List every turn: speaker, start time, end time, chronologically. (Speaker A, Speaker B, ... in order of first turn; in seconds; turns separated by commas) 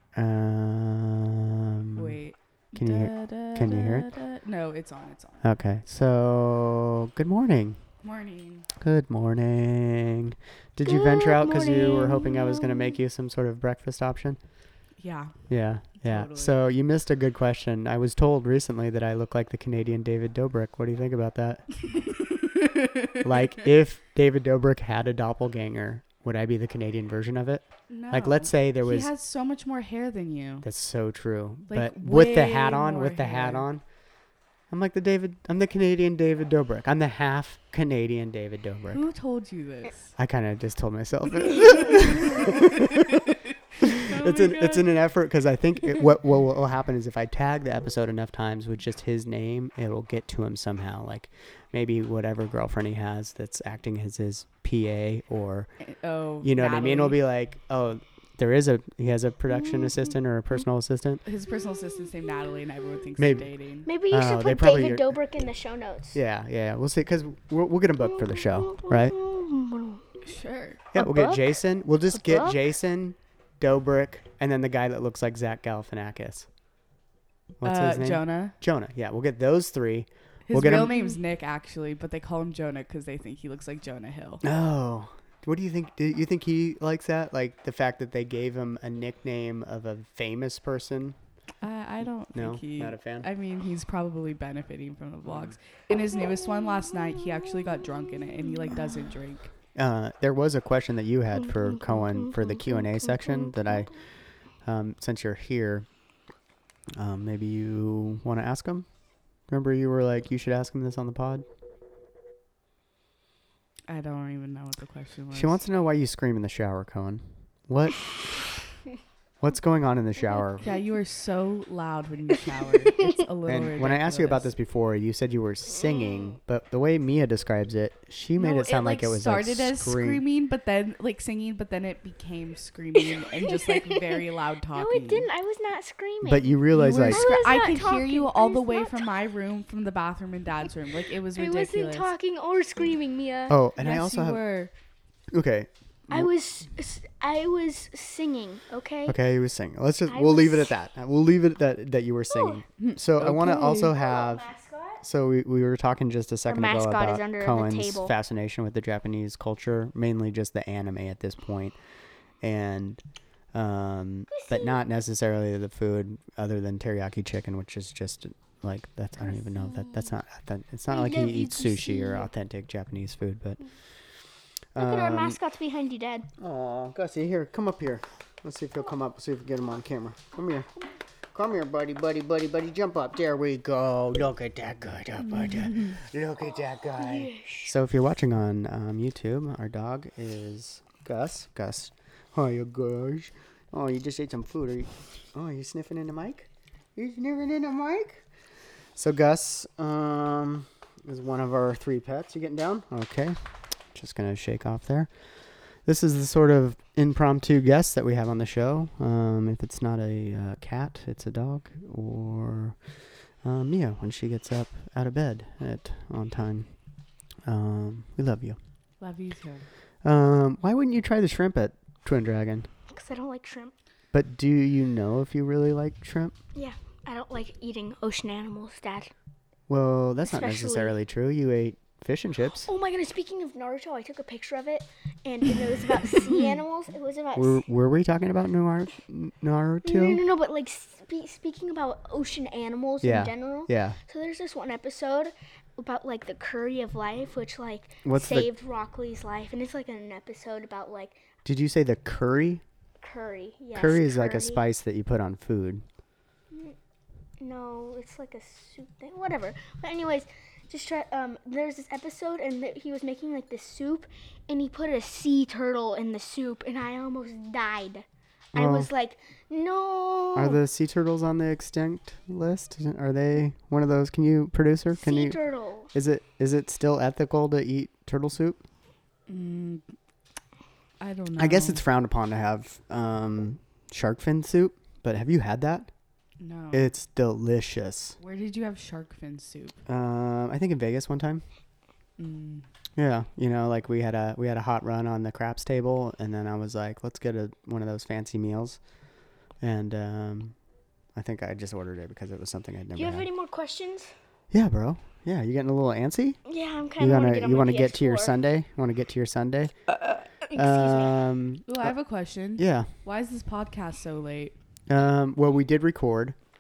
Speaker A: 0.1-2.2, Speaker B: 1.9-5.5, Speaker A: 2.7-4.1, Speaker A: 5.4-7.8, Speaker B: 8.0-8.7, Speaker A: 8.8-14.4, Speaker C: 10.8-13.0, Speaker B: 15.0-16.5, Speaker A: 15.5-21.7, Speaker B: 21.9-23.4, Speaker A: 23.2-29.1, Speaker B: 27.9-30.6, Speaker A: 30.6-33.8, Speaker B: 31.7-33.7, Speaker A: 34.7-39.0, Speaker B: 38.9-40.1, Speaker A: 40.1-55.7, Speaker B: 41.8-44.9, Speaker B: 55.8-57.2, Speaker A: 56.4-61.2, Speaker B: 61.2-63.9, Speaker A: 63.2-63.5, Speaker C: 63.9-66.2, Speaker A: 64.1-65.1, Speaker A: 66.1-69.2, Speaker C: 68.1-70.0, Speaker B: 70.2-70.8, Speaker A: 70.9-76.5, Speaker C: 70.9-71.6, Speaker C: 72.1-72.6, Speaker A: 77.6-80.9, Speaker B: 77.6-78.5, Speaker B: 80.5-84.4, Speaker C: 80.7-81.2, Speaker A: 84.4-91.2, Speaker B: 91.6-99.5, Speaker A: 92.3-93.3, Speaker A: 99.7-103.9, Speaker C: 101.4-103.9, Speaker A: 104.6-105.9, Speaker A: 107.0-108.8, Speaker A: 109.5-111.4, Speaker B: 113.9-115.6, Speaker A: 115.3-118.5, Speaker A: 119.4-120.7, Speaker B: 120.6-124.5, Speaker A: 123.5-130.2, Speaker C: 125.9-126.3, Speaker B: 128.3-135.3, Speaker C: 133.2-134.0, Speaker C: 134.7-139.1, Speaker A: 136.2-137.2, Speaker B: 136.7-142.1, Speaker C: 141.3-143.6, Speaker A: 143.5-144.4, Speaker B: 143.8-144.7, Speaker A: 145.3-146.3, Speaker C: 146.1-149.2, Speaker A: 149.1-154.5, Speaker C: 150.1-150.7, Speaker C: 152.3-152.6, Speaker B: 152.8-153.9, Speaker C: 153.8-155.0, Speaker A: 155.0-161.7, Speaker C: 156.5-158.1, Speaker A: 162.4-163.0, Speaker A: 163.5-173.6, Speaker C: 164.3-164.8, Speaker C: 169.2-170.1, Speaker C: 170.9-172.3, Speaker A: 174.7-175.4, Speaker C: 174.8-176.3, Speaker A: 176.4-180.7, Speaker A: 181.3-198.2, Speaker B: 185.2-186.0, Speaker C: 187.0-187.7, Speaker A: 198.9-203.4, Speaker A: 203.9-205.1, Speaker A: 205.8-212.8, Speaker A: 213.4-216.7, Speaker A: 217.5-218.6, Speaker B: 219.0-219.7, Speaker A: 220.0-222.7, Speaker C: 222.9-223.7, Speaker A: 224.1-226.3, Speaker C: 226.5-229.1, Speaker A: 229.7-232.7, Speaker C: 230.2-230.9, Speaker C: 232.6-237.6, Speaker A: 237.3-240.2, Speaker C: 239.8-251.2, Speaker A: 243.0-244.0, Speaker A: 248.0-248.5, Speaker A: 251.4-252.6, Speaker C: 253.0-254.6, Speaker A: 253.7-255.8, Speaker C: 257.4-270.6, Speaker A: 268.5-268.9, Speaker A: 270.3-275.4, Speaker C: 274.9-275.9, Speaker A: 275.9-278.6, Speaker B: 279.3-279.8, Speaker B: 281.0-281.8, Speaker A: 281.4-285.9, Speaker B: 286.4-286.9, Speaker A: 286.7-288.2, Speaker B: 288.2-289.8, Speaker A: 289.9-291.4, Speaker B: 292.2-292.7, Speaker A: 292.9-298.8, Speaker A: 299.6-300.6, Speaker A: 301.1-303.3, Speaker C: 302.9-304.1, Speaker A: 304.5-306.4, Speaker C: 306.4-308.4, Speaker A: 307.0-309.7, Speaker C: 310.4-311.2, Speaker A: 310.5-311.9, Speaker B: 311.7-314.6, Speaker A: 312.6-312.9, Speaker A: 314.9-316.4